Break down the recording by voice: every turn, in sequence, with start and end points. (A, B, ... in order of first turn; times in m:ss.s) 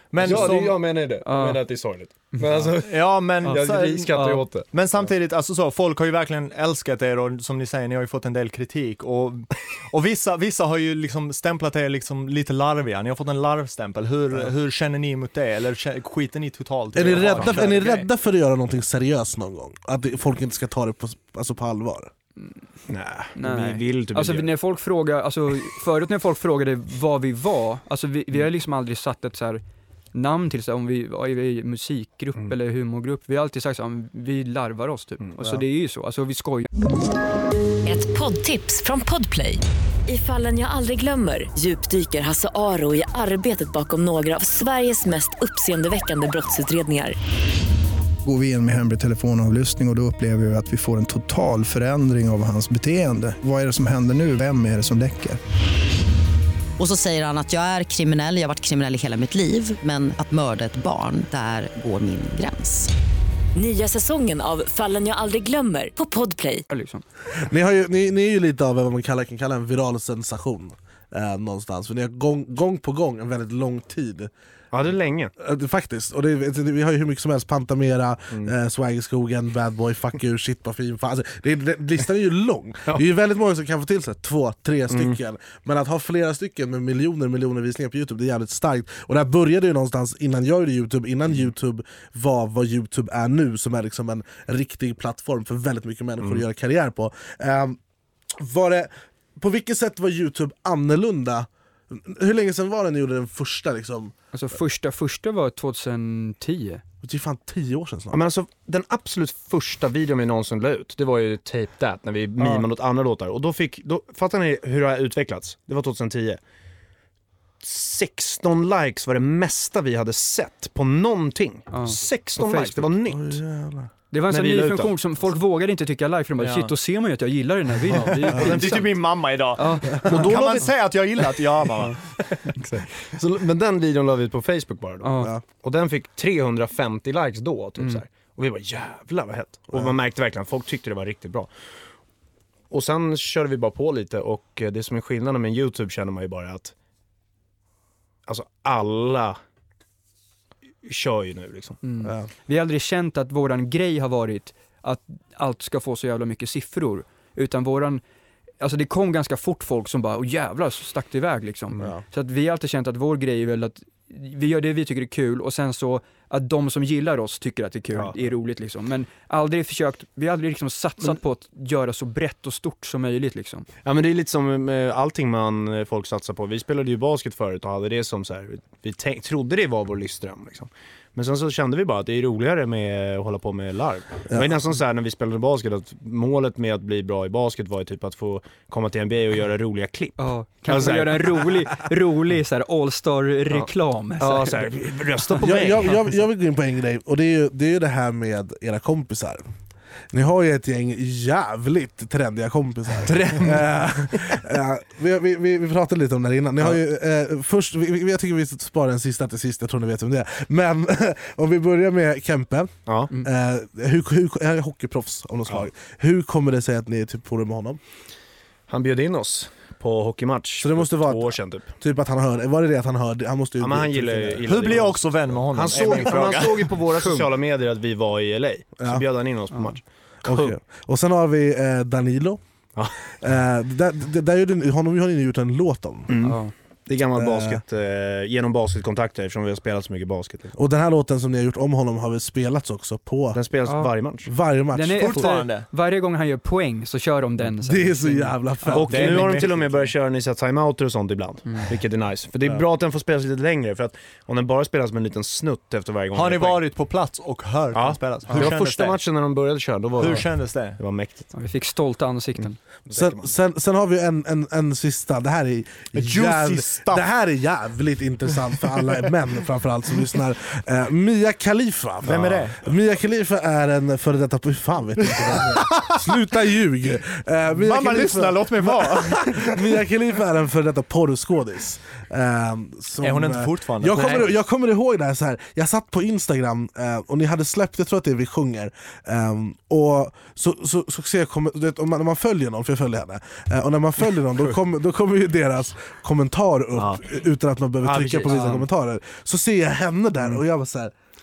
0:00.1-0:00.8 A
0:00.2-0:04.7 B
0:01.2-0:01.6 C
0:02.8-0:18.1 A
0:03.4-0:04.4 C
0:16.9-0:22.1 D
0:17.3-0:17.6 B
0:22.9-0:24.5 B
0:23.4-0:29.6 C
0:30.1-0:36.7 C
0:37.8-0:47.1 E
0:48.2-0:55.4 F
0:56.8-1:02.9 G
1:03.5-1:06.6 E
1:06.7-1:07.0 C
1:07.4-1:14.3 D
1:14.7-1:15.3 B
1:15.4-1:37.8 D
1:24.9-1:25.2 B
1:38.3-1:44.2 D
1:44.3-1:46.8 C
1:47.0-1:48.2 D
1:48.1-1:56.4 B
1:57.6-2:03.4 B
2:01.7-2:02.8 C
2:03.1-2:03.9 D
2:04.1-2:10.3 C
2:04.3-2:04.9 B
2:06.4-2:06.7 A
2:07.9-2:12.2 A
2:08.3-2:08.6 D
2:10.1-2:10.7 B
2:12.6-2:12.8 C
2:13.1-2:21.5 B
2:15.0-2:15.3 C
2:22.7-2:26.7 B
2:28.2-2:29.4 B
2:30.8-2:31.8 B
2:31.8-2:38.0 C
2:32.0-2:32.3 D
2:38.6-2:53.6 C
2:53.8-3:11.5 B
3:10.2-3:14.7 C
3:14.2-3:16.1 B
3:15.4-3:19.4 D
3:20.1-3:37.8 D
3:38.7-3:41.7 B
3:40.6-3:44.9 D
3:43.6-3:50.5 B
3:44.4-3:46.7 A
3:50.2-3:52.4 D
3:53.2-3:56.1 D
3:56.1-4:00.5 B
3:56.2-3:56.5 C
3:57.1-3:57.6 D
4:00.6-4:03.4 D
4:03.3-4:04.3 B
4:04.2-4:05.3 D
4:04.7-4:08.4 C
4:05.0-4:05.6 A
4:07.6-4:09.3 D
4:08.7-4:16.6 B
4:08.8-4:09.9 A
4:11.4-4:11.7 C
4:16.1-4:19.0 A
4:17.7-4:21.3 B
4:20.0-4:20.8 A
4:21.3-4:22.6 C
4:22.9-4:23.3 B
4:22.9-5:00.9 D
4:25.9-4:27.0 A
4:32.0-4:32.6 A
4:32.0-4:32.4 B
4:35.0-4:35.8 A
4:37.6-4:39.5 A
4:43.0-4:44.4 A
4:56.7-4:57.1 B
4:57.8-4:58.4 B
4:58.3-4:58.6 C